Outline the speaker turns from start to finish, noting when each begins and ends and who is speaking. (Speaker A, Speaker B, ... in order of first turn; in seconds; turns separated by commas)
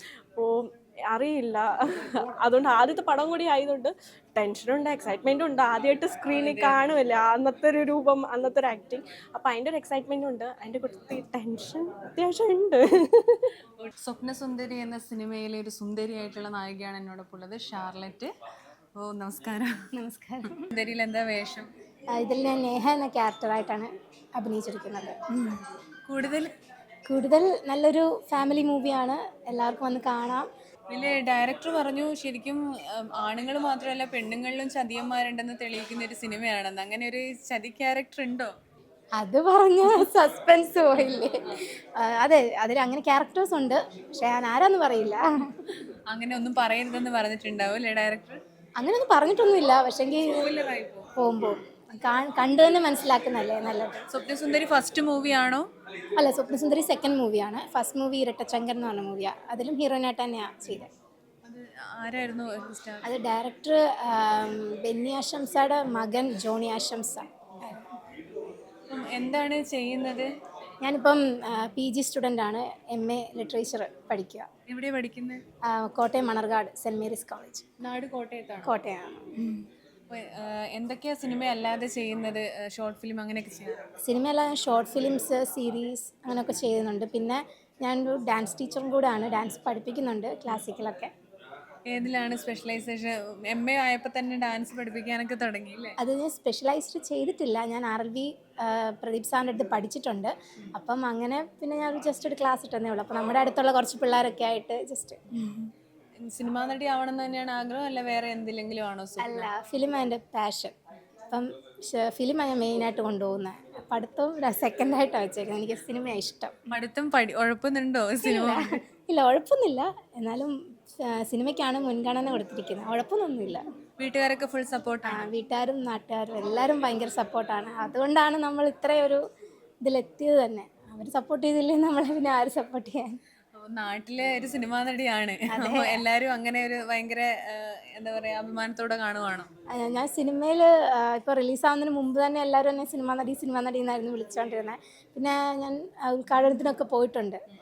Speaker A: 0.3-13.5, Speaker B: 6.3-6.8, Speaker B: 14.0-18.3, Speaker B: 19.0-19.8, Speaker C: 19.9-20.7, Speaker B: 20.6-21.7, Speaker C: 22.1-25.6, Speaker B: 26.1-26.5, Speaker C: 27.1-30.5, Speaker B: 30.9-38.5, Speaker C: 39.2-45.6, Speaker B: 46.1-48.4, Speaker C: 48.8-50.4, Speaker B: 50.3-51.1, Speaker C: 51.2-54.0, Speaker B: 54.1-55.6, Speaker C: 56.2-60.9, Speaker B: 61.5-63.0, Speaker C: 63.0-67.9, Speaker B: 68.9-70.3, Speaker C: 70.8-74.5, Speaker B: 74.7-75.4, Speaker C: 75.7-77.6, Speaker B: 77.8-78.7, Speaker C: 78.6-79.6, Speaker B: 80.1-83.8, Speaker C: 84.0-91.1, Speaker B: 91.9-96.0, Speaker C: 96.0-105.7, Speaker B: 106.2-109.5, Speaker C: 109.2-110.7, Speaker C: 111.3-116.5, Speaker B: 116.7-118.7, Speaker C: 118.2-123.6, Speaker B: 124.0-125.2, Speaker C: 125.1-129.2, Speaker C: 129.8-133.2, Speaker B: 133.5-139.5, Speaker C: 135.5-136.0, Speaker C: 139.7-147.4